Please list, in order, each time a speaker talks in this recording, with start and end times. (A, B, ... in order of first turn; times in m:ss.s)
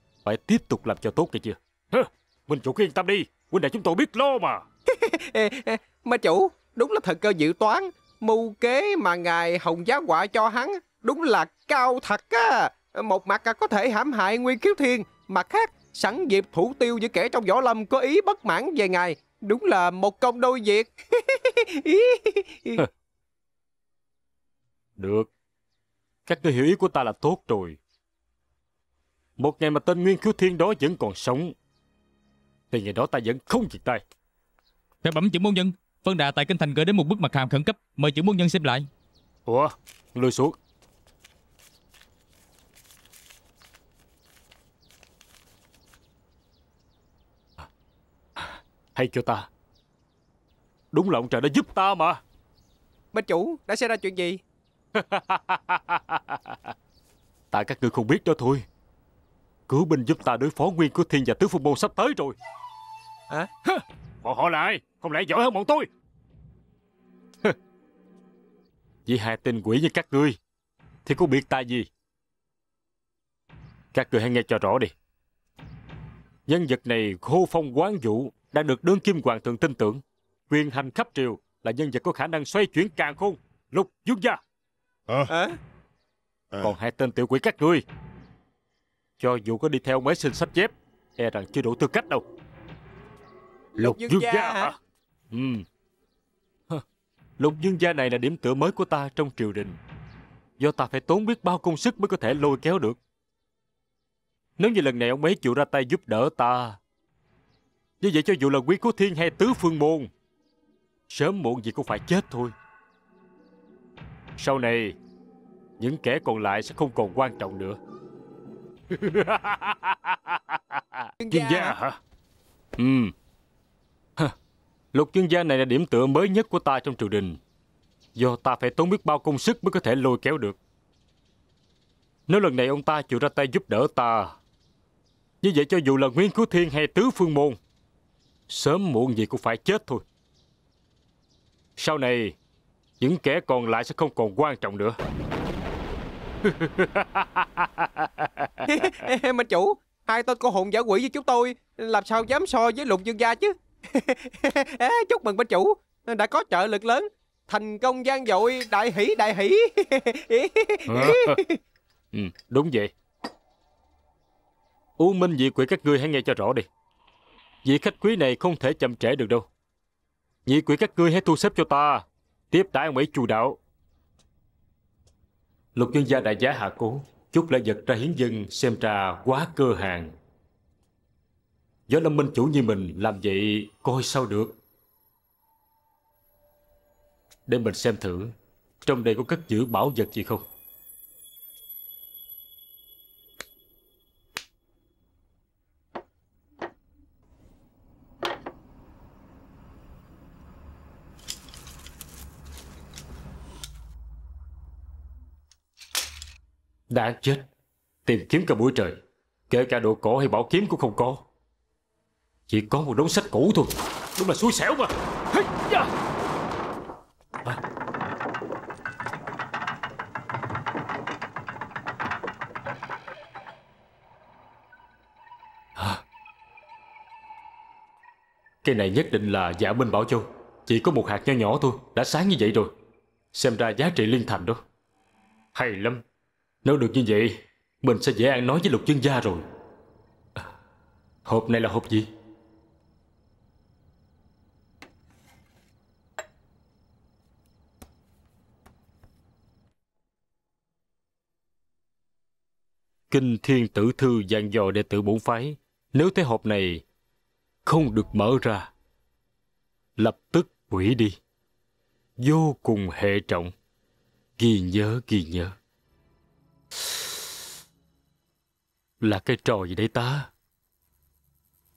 0:00.2-0:04.6 A
0:04.9-0:22.8 B
0:25.0-0:25.3 A
0:26.2-0:27.8 A
0:29.4-0:31.5 A
0:32.7-0:34.0 A
0:35.0-0:38.9 C
0:39.5-0:40.5 A
0:48.4-0:49.5 A
0:50.9-0:52.2 A
0:53.1-0:54.4 B
0:54.9-0:56.6 A
0:57.5-0:58.6 A
0:59.7-1:02.4 A
1:03.7-1:05.9 A
1:09.0-1:10.4 A
1:11.0-1:11.9 A
1:13.9-1:14.9 A
1:16.5-1:24.4 A
1:25.3-1:25.6 B
1:26.6-1:27.8 A
1:29.2-1:32.2 A
1:33.8-1:34.7 B
1:33.8-1:34.8 A
1:35.3-1:35.6 A
1:37.4-1:39.8 A
1:40.6-1:43.0 A
1:44.6-1:46.8 A
1:48.0-1:50.1 A
1:51.1-1:52.5 A
1:54.4-1:55.0 A
1:55.8-1:57.8 A
1:58.9-2:02.0 A
2:01.2-2:01.8 B
2:02.8-2:03.1 A
2:04.9-2:07.4 A
2:08.2-2:10.6 A
2:12.3-2:14.3 A
2:15.4-2:17.6 A
2:18.5-2:20.0 A
2:21.8-2:22.3 A
2:23.0-2:25.0 A
2:26.4-2:28.5 A
2:28.6-2:41.6 B
2:40.9-2:41.4 A
2:42.1-2:42.9 A
2:45.0-2:46.7 A
2:47.6-2:49.5 A
2:50.4-2:53.6 A
2:55.7-3:00.1 A
3:01.9-3:04.6 A
3:07.5-3:08.3 A
3:08.8-3:10.4 A
3:26.9-3:27.4 A
3:28.0-3:29.0 A
3:29.5-3:31.2 A
3:32.5-3:35.9 A
3:45.8-3:46.0 A
3:48.6-3:52.7 A
3:53.3-3:54.6 A
3:55.5-3:56.0 A
3:56.6-3:59.4 A
4:01.2-4:02.1 A
4:13.1-4:16.8 A
4:17.6-4:18.7 A
4:20.0-4:21.2 A
4:22.2-4:23.5 A
4:24.4-4:25.5 A
4:29.0-4:30.3 A